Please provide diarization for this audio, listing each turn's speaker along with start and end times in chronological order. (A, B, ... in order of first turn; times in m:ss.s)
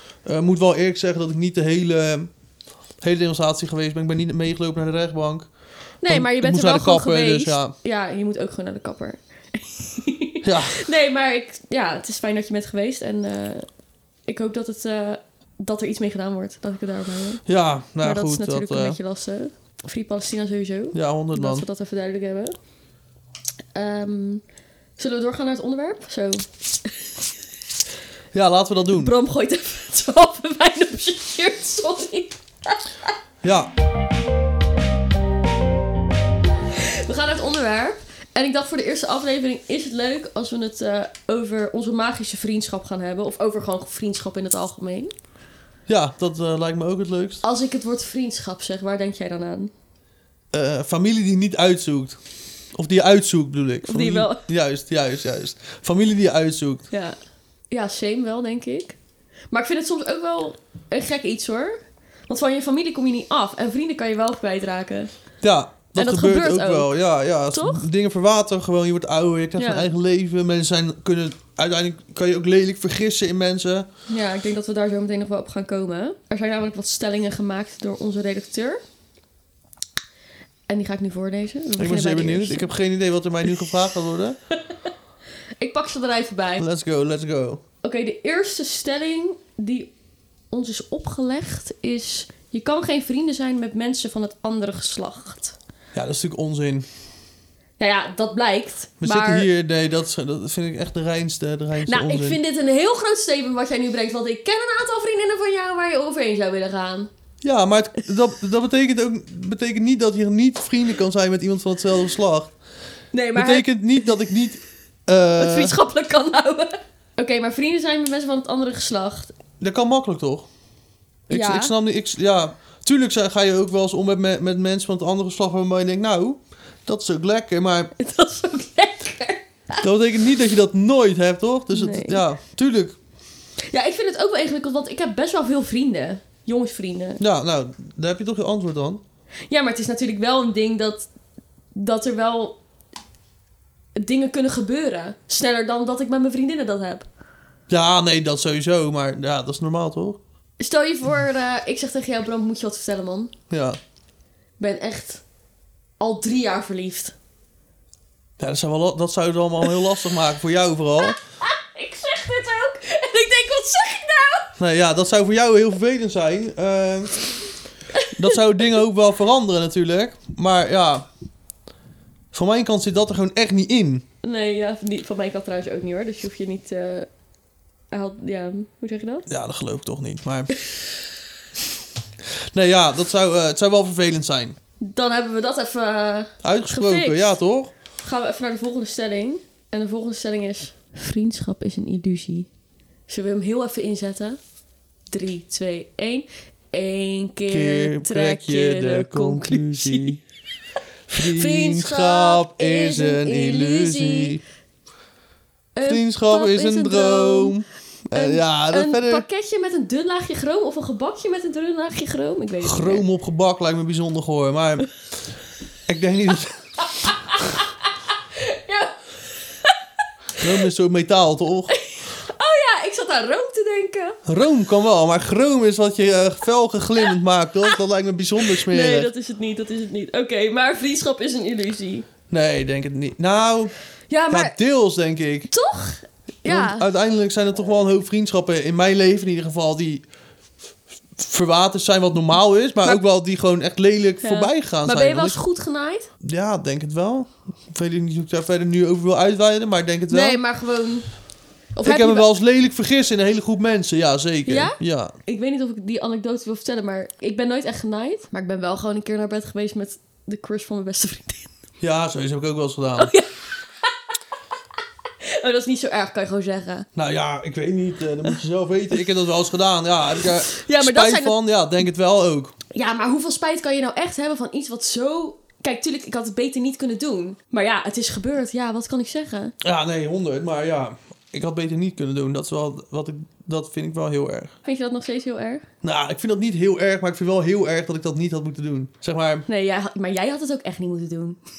0:00.2-0:02.3 A
0:03.0-0:05.5 A
0:06.0-0:13.7 B
0:06.0-0:07.7 A
0:10.4-0:10.8 A
0:14.3-0:17.4 B
0:17.4-0:19.0 A
0:18.0-0:22.5 B
0:20.9-0:21.6 A
0:23.7-0:24.4 B
0:25.0-0:26.4 B
0:28.3-0:29.1 A
0:28.9-0:33.1 B
0:33.4-0:33.7 A
0:36.7-0:45.1 B
0:45.9-0:47.4 A
0:47.4-0:49.7 B
0:50.5-0:52.2 A
0:52.7-0:56.8 A
0:53.8-0:54.4 B
0:56.9-0:57.2 B
0:57.7-0:59.0 B
0:59.5-1:01.8 B
1:02.3-1:05.1 B
1:05.4-1:13.9 A
1:06.0-1:06.9 B
1:07.5-1:07.8 B
1:09.6-1:09.9 B
1:14.1-1:18.8 B
1:20.7-1:22.7 B
1:21.8-1:24.4 A
1:25.6-1:26.6 B
1:26.6-1:27.6 A
1:27.8-1:29.9 B
1:30.5-1:35.6 B
1:35.9-1:36.8 A
1:37.8-1:39.5 B
1:39.0-1:42.4 A
1:41.8-1:47.1 B
1:47.4-1:52.5 A
1:53.1-1:53.7 B
1:53.4-1:55.8 A
1:55.4-1:59.3 B
1:59.6-2:00.5 A
2:01.3-2:07.9 A
2:01.3-2:01.7 B
2:08.0-2:09.8 B
2:09.8-2:13.0 A
2:11.7-2:12.2 B
2:13.7-2:17.2 B
2:17.2-2:19.0 A
2:19.5-2:21.1 B
2:21.7-2:22.6 B
2:24.0-2:27.1 B
2:27.7-2:30.2 A
2:30.6-2:33.3 B
2:33.5-2:33.8 A
2:34.6-2:35.2 B
2:36.0-2:37.1 B
2:38.4-2:41.2 A
2:41.1-2:44.5 B
2:44.6-2:47.3 A
2:47.9-2:48.4 B
2:48.1-2:51.0 A
2:52.3-2:54.0 A
2:54.2-2:57.1 B
2:57.9-2:59.3 B
2:59.3-3:00.5 A
3:02.4-3:04.6 A
3:04.8-3:07.3 B
3:06.4-3:07.7 A
3:08.0-3:12.5 B
3:13.1-3:14.4 B
3:15.1-3:20.2 B
3:17.5-3:20.2 A
3:21.1-3:24.4 A
3:21.2-3:24.4 B
3:25.7-3:27.5 B
3:25.8-3:29.2 A
3:28.1-3:33.0 B
3:32.6-3:34.9 A
3:35.9-3:36.6 A
3:36.9-3:39.0 B
3:40.4-3:41.8 A
3:41.7-3:44.2 B
3:44.2-3:49.1 A
3:48.4-3:52.1 B
3:52.3-3:53.7 A
3:54.1-3:54.5 B
3:54.3-3:55.5 A
3:55.5-3:56.9 B
3:56.4-4:00.0 A
4:01.2-4:05.4 A
4:04.2-4:06.1 B
4:06.2-4:10.4 A
4:10.1-4:11.1 B
4:11.7-4:12.3 B
4:11.8-4:15.1 A
4:14.4-4:21.5 B
4:21.8-4:23.1 A
4:23.0-4:23.3 B
4:25.2-4:26.9 B
4:26.9-4:32.5 A
4:30.2-4:31.4 B
4:32.7-4:39.5 B
4:39.6-4:44.5 A
4:44.6-4:45.6 B
4:45.8-4:49.4 A
4:49.5-4:51.4 B